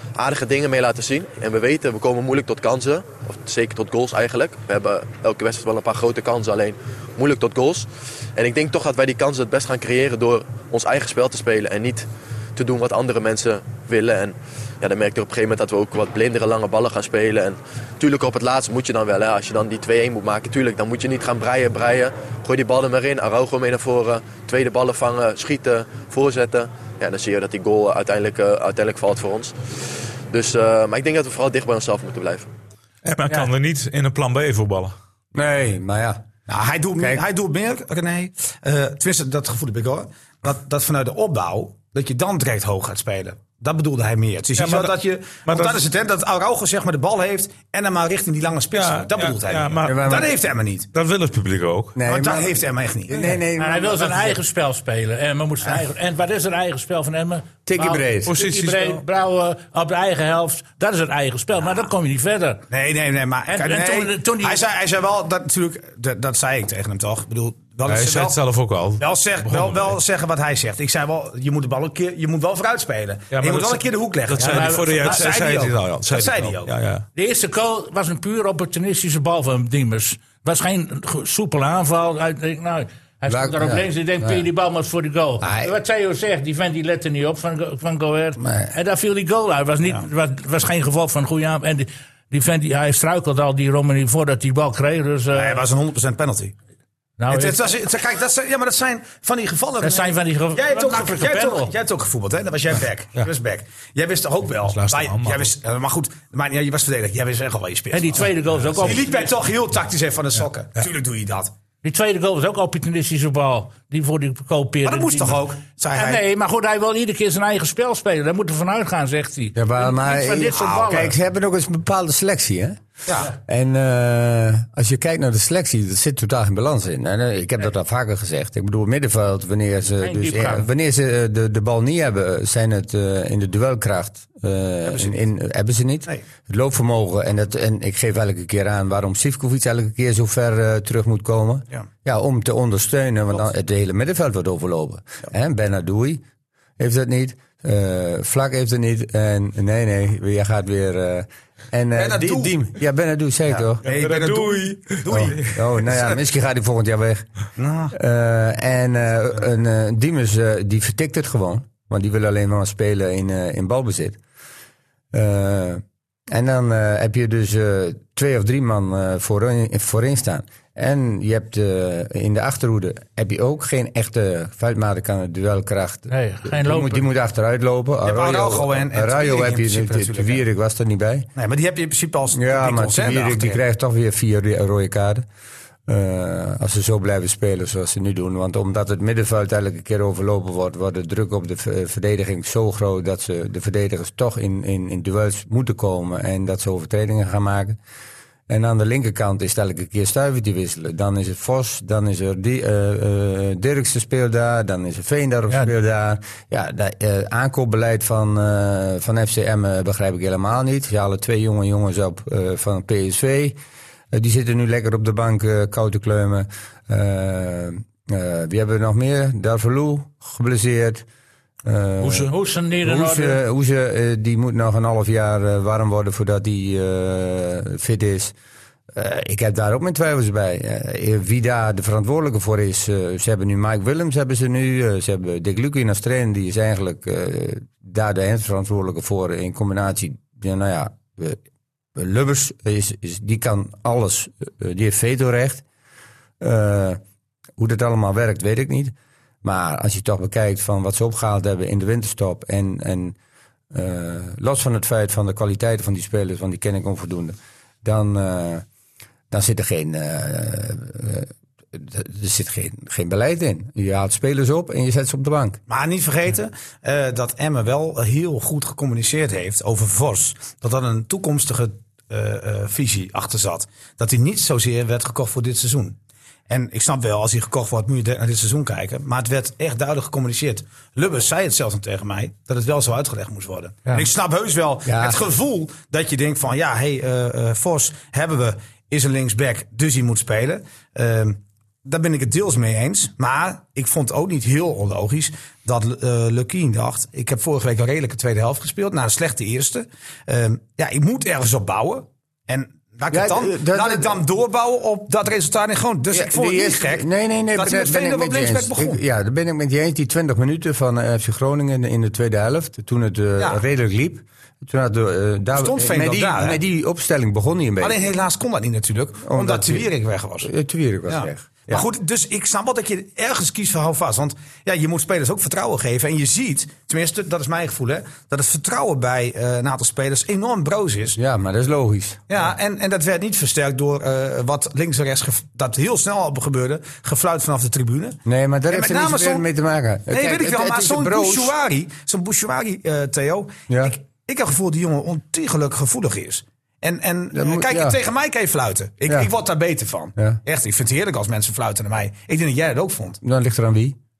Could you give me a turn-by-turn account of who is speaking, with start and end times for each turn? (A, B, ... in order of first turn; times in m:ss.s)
0:00.2-0:29.5 A
0:30.3-0:32.5 A
0:33.0-0:34.9 B
0:35.3-0:36.2 C
0:36.5-0:50.9 D
0:44.6-0:44.9 B
0:45.4-0:45.8 B
0:48.7-0:50.3 B
0:49.8-0:50.3 C
0:50.9-0:52.0 B
0:51.9-0:54.4 C
0:52.0-0:53.2 D
0:53.6-1:02.6 E
0:57.6-0:58.3 C
0:58.2-0:59.0 B
1:02.7-1:08.4 D
1:03.5-1:04.6 E
1:07.8-1:10.0 B
1:09.0-1:16.7 D
1:13.3-1:17.0 B
1:14.4-1:15.2 E
1:17.1-1:35.6 E
1:23.3-1:24.4 C
1:25.4-1:25.7 C
1:28.4-1:28.7 C
1:35.3-1:36.5 D
1:37.2-1:37.6 E
1:37.3-1:51.5 D
1:39.8-1:41.7 E
1:44.6-1:45.5 B
1:47.9-1:49.3 E
1:51.8-2:01.1 E
1:54.8-1:56.2 D
1:59.5-2:02.8 C
2:03.0-2:03.3 D
2:03.3-2:26.2 C
2:10.0-2:10.7 E
2:14.8-2:15.2 D
2:26.8-2:33.8 C
2:32.0-2:32.5 D
2:33.5-2:35.4 D
2:33.8-2:35.6 B
2:35.1-2:37.2 C
2:37.6-2:37.9 D
2:37.9-2:44.2 C
2:45.1-3:01.3 C
2:56.1-2:57.1 E
2:58.0-3:00.4 D
3:01.4-3:03.6 D
3:02.3-3:05.2 C
3:05.9-3:17.8 C
3:18.5-3:33.6 C
3:34.1-3:41.0 C
3:41.6-3:48.3 C
3:42.0-3:43.4 E
3:48.9-4:01.4 C
4:01.9-4:05.6 C
4:06.4-4:07.0 C
4:07.6-4:13.2 C
4:13.7-4:18.6 C
4:19.3-4:25.6 C
4:25.7-4:36.0 D
4:36.5-5:09.0 D
4:44.8-4:45.2 C
5:03.1-5:04.2 C
5:06.1-5:18.0 C
5:15.5-5:16.6 D
5:17.8-5:20.5 D
5:19.2-5:19.9 C
5:20.4-5:21.8 C
5:21.1-5:31.2 D
5:31.2-5:32.4 C
5:32.3-5:38.2 D
5:38.2-5:41.5 C
5:38.7-5:39.4 D
5:40.1-5:53.2 D
5:43.7-5:44.0 C
5:47.3-5:48.0 C
5:53.2-5:54.0 C